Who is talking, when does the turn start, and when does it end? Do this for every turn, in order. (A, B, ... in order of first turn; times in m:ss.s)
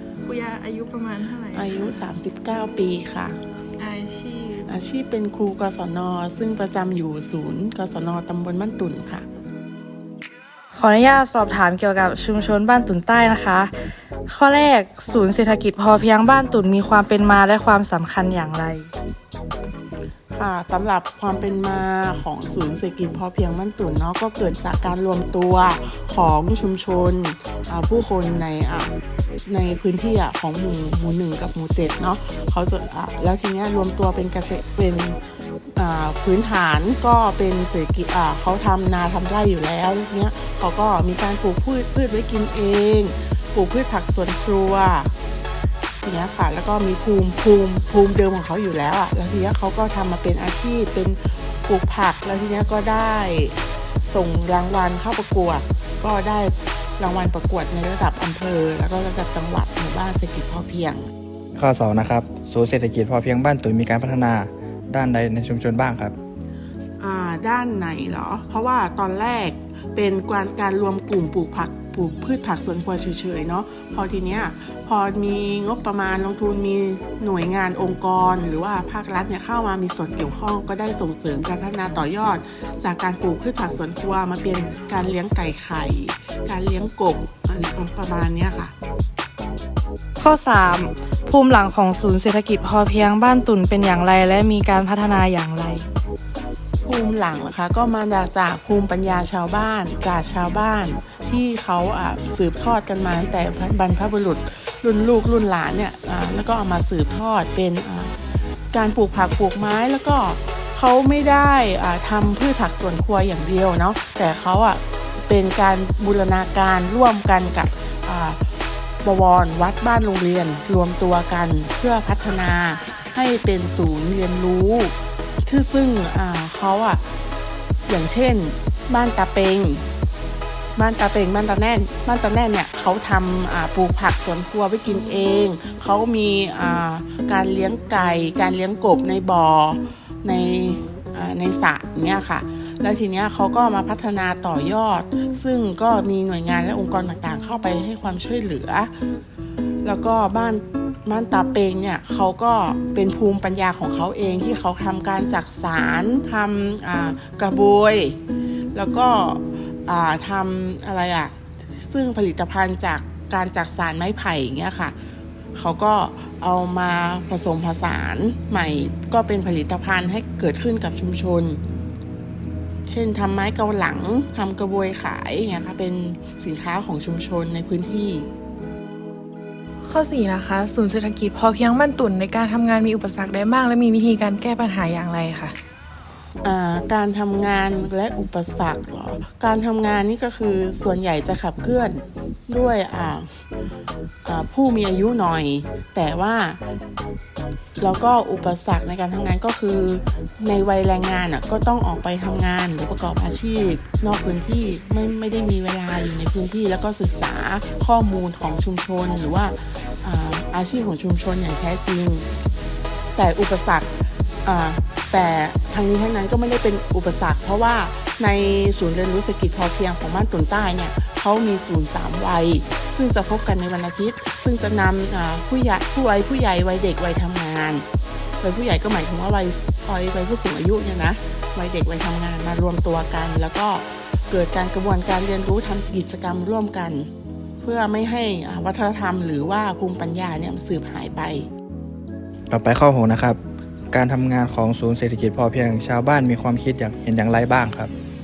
0:00.2-0:02.0 A
0:01.5-0:03.4 B
0:03.8-0:04.7 A
0:04.7-0:09.2 B
0:10.7-0:18.9 C
0:20.3-0:28.9 B
0:29.4-0:35.2 B
0:35.8-0:45.1 B
0:46.0-1:01.0 B
1:01.6-1:06.1 D
1:07.0-1:28.7 B
1:30.2-1:35.9 C
1:36.8-1:48.1 B
1:48.7-1:58.4 B
1:59.0-2:07.0 B
2:07.9-2:09.8 B
2:10.8-2:28.9 B
2:29.8-2:38.2 B
2:38.7-2:44.9 B
2:45.6-2:51.6 B
2:52.8-2:58.3 B
2:59.8-3:05.5 A
3:06.4-3:13.3 B
3:14.2-3:16.6 B
3:17.8-3:32.2 B
3:33.2-3:33.9 B
3:34.4-3:47.8 B
3:48.4-3:57.1 B
3:57.6-4:01.5 B
4:02.5-4:03.4 D
4:03.9-4:07.9 D